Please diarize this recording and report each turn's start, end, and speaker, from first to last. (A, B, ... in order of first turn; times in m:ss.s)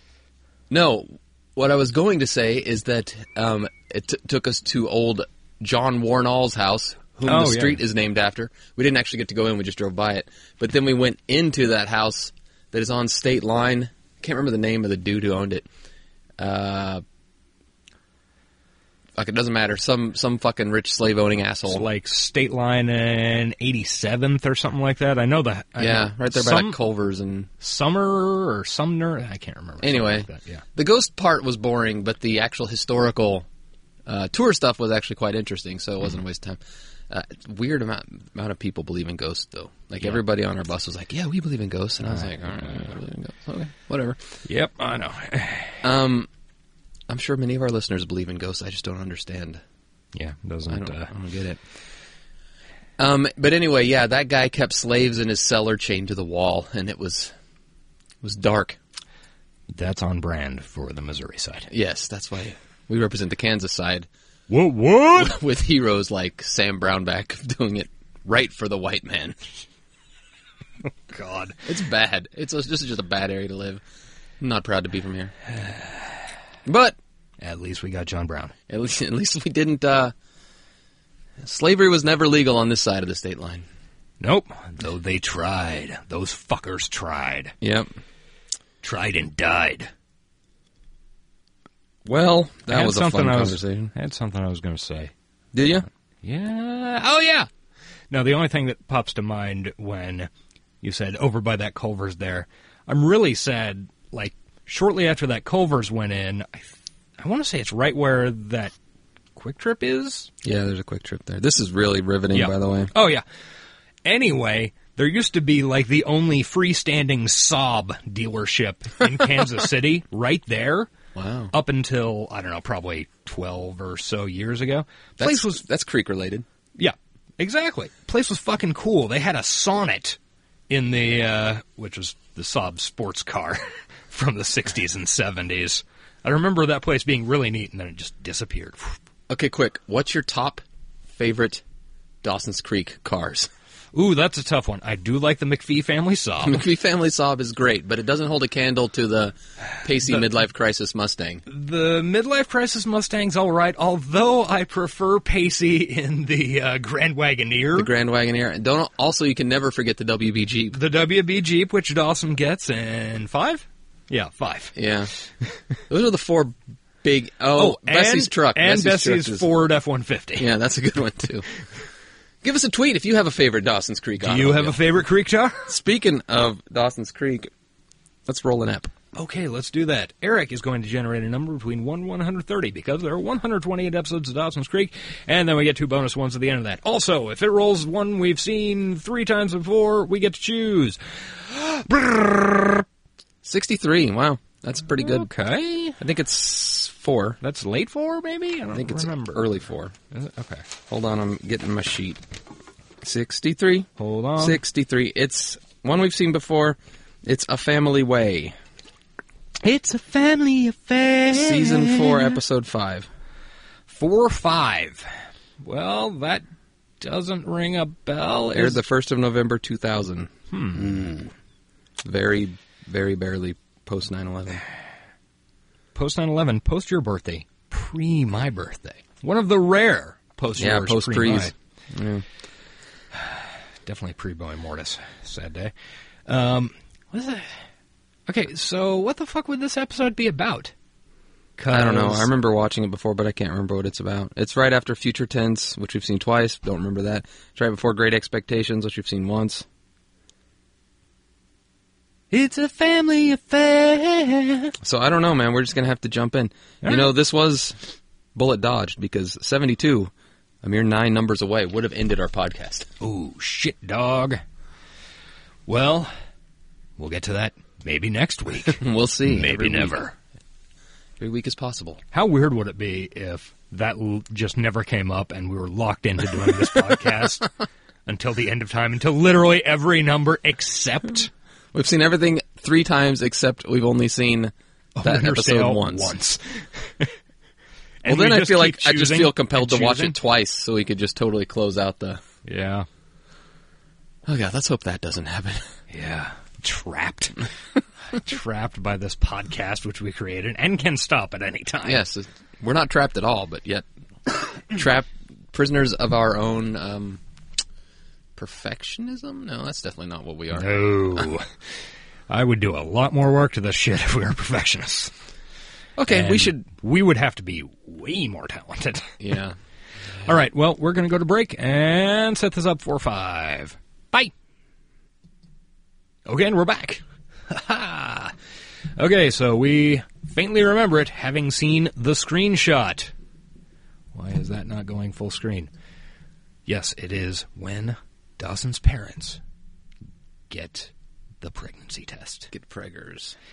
0:00.7-0:15.6 A
0:07.2-0:07.8 B
0:16.4-0:17.0 A
0:19.2-0:21.9 A
0:21.7-0:26.8 B
0:25.8-0:27.5 A
0:27.6-0:30.6 B
0:29.8-0:33.5 A
0:34.1-0:44.2 A
0:42.0-0:43.0 B
0:44.4-0:45.8 B
0:45.8-0:46.3 A
0:47.1-0:49.6 A
0:50.1-0:51.1 B
0:50.7-0:51.6 A
0:53.0-0:57.3 A
0:58.2-0:58.8 A
0:59.7-1:01.7 B
1:01.7-1:04.1 A
1:04.5-1:05.4 B
1:05.2-1:09.4 A
1:11.1-1:11.6 B
1:11.6-1:13.8 A
1:14.4-1:15.3 A
1:15.6-1:16.1 B
1:16.6-1:17.0 A
1:17.4-1:18.5 B
1:18.7-1:20.1 A
1:21.4-1:23.6 A
1:24.2-1:27.5 B
1:27.6-1:28.0 A
1:28.8-1:29.9 B
1:32.0-1:33.9 A
1:32.7-1:37.5 B
1:35.5-1:35.9 A
1:38.1-1:40.3 B
1:40.8-1:48.7 B
1:49.4-1:50.3 B
1:50.4-1:52.9 A
1:52.3-1:53.2 B
1:54.0-2:00.9 B
2:01.1-2:01.5 A
2:01.5-2:05.6 B
2:05.2-2:06.4 A
2:06.8-2:10.2 B
2:10.7-2:18.9 B
2:19.3-2:21.6 A
2:22.2-2:23.5 A
2:23.9-2:26.6 B
2:26.4-2:31.4 A
2:30.0-2:30.3 B
2:31.5-2:37.9 B
2:37.7-2:40.8 A
2:40.7-2:44.7 B
2:44.7-2:45.1 A
2:45.9-2:49.5 A
2:47.6-2:50.5 B
2:50.4-2:51.5 A
2:52.4-2:54.8 A
2:54.2-2:55.6 B
2:55.7-2:57.5 A
2:58.2-2:58.9 A
2:59.1-3:12.8 B
3:13.4-3:15.3 A
3:14.9-3:16.0 B
3:16.0-3:17.4 A
3:17.4-3:19.5 B
3:18.7-3:19.9 A
3:20.1-3:20.6 B
3:20.9-3:22.2 A
3:23.0-3:28.6 A
3:24.0-3:24.6 B
3:29.6-3:32.4 B
3:31.3-3:33.1 A
3:33.9-3:35.1 B
3:35.6-3:36.4 B
3:37.0-3:38.8 B
3:38.5-3:41.3 A
3:40.5-3:41.1 B
3:42.0-3:44.6 A
3:45.9-3:51.5 B
3:50.6-3:52.2 A
3:53.1-3:55.7 B
3:56.3-3:57.6 B
3:58.3-4:00.7 B
4:01.6-4:02.3 B
4:01.7-4:09.6 A
4:12.3-4:14.7 B
4:14.8-4:17.8 A
4:16.8-4:17.1 B
4:18.3-4:20.1 A
4:20.6-4:22.9 A
4:23.0-4:24.4 B
4:25.7-4:26.1 B
4:27.0-4:30.1 B
4:28.6-4:30.1 A
4:31.2-4:32.0 A
4:32.1-4:37.5 B
4:38.1-4:41.3 B
4:41.7-4:46.1 A
4:45.0-4:47.1 B
4:48.0-4:50.2 B
4:48.0-4:52.2 A
4:52.4-4:52.9 B
4:54.2-4:55.7 A
4:55.9-4:57.5 B
4:58.1-5:02.0 B
5:01.8-5:03.8 A
5:04.6-5:07.2 A
5:08.4-5:11.3 A
5:10.5-5:11.5 B
5:12.3-5:15.1 B
5:16.0-5:16.6 A
5:16.0-5:19.1 B
5:19.2-5:19.6 A
5:20.2-5:24.3 B
5:26.2-5:28.3 B
5:29.0-5:33.1 B
5:34.1-5:35.7 B
5:36.6-5:39.4 B
5:40.5-5:42.5 B
5:42.5-5:43.4 A